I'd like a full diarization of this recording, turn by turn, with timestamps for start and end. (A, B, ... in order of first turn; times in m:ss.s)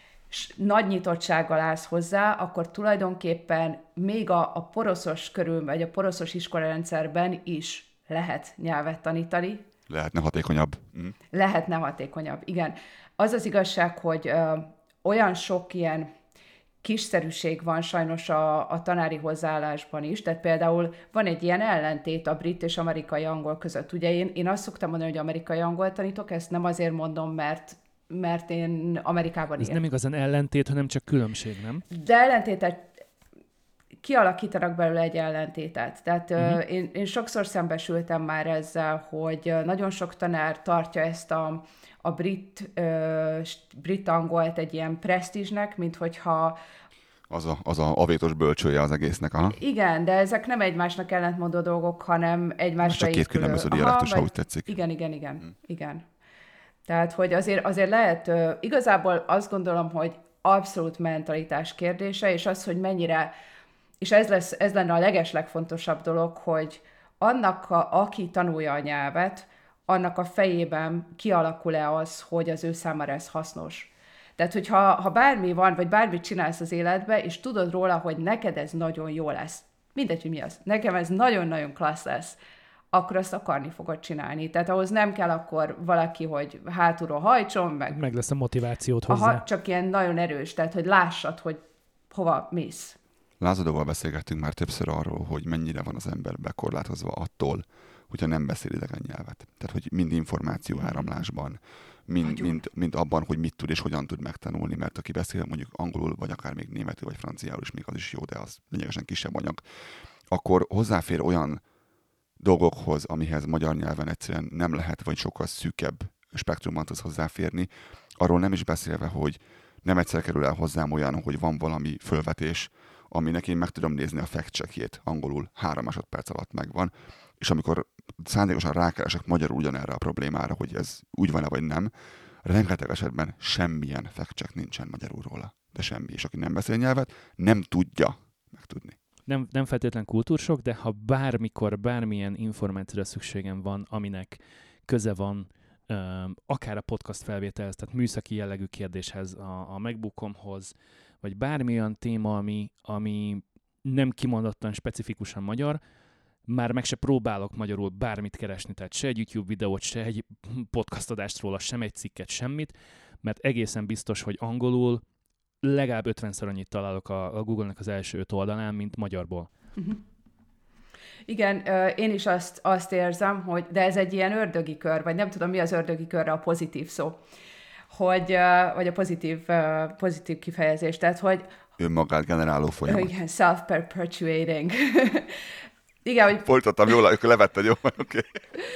0:00.3-0:09.6 A
0:09.9-0:11.1 B
0:11.3-0:16.1 A
0:16.8-0:29.8 A
0:29.6-0:31.8 C
0:31.9-0:32.9 A
0:34.0-0:46.6 A
0:47.3-0:49.6 B
0:49.5-0:56.0 A
0:52.8-0:54.7 B
0:56.8-1:03.3 A
1:04.0-1:22.4 A
1:22.9-1:28.0 A
1:27.9-1:29.4 C
1:29.1-1:33.0 A
1:33.4-1:49.6 B
1:42.2-1:42.6 A
1:50.3-1:51.6 B
1:52.4-2:11.9 B
2:12.4-2:19.0 B
2:19.3-2:35.8 C
2:36.5-2:45.0 C
2:45.6-2:49.5 C
2:51.3-2:57.2 A
2:57.9-3:01.5 A
3:01.8-3:03.1 B
3:02.8-3:05.4 A
3:06.0-3:06.4 A
3:06.4-3:08.4 B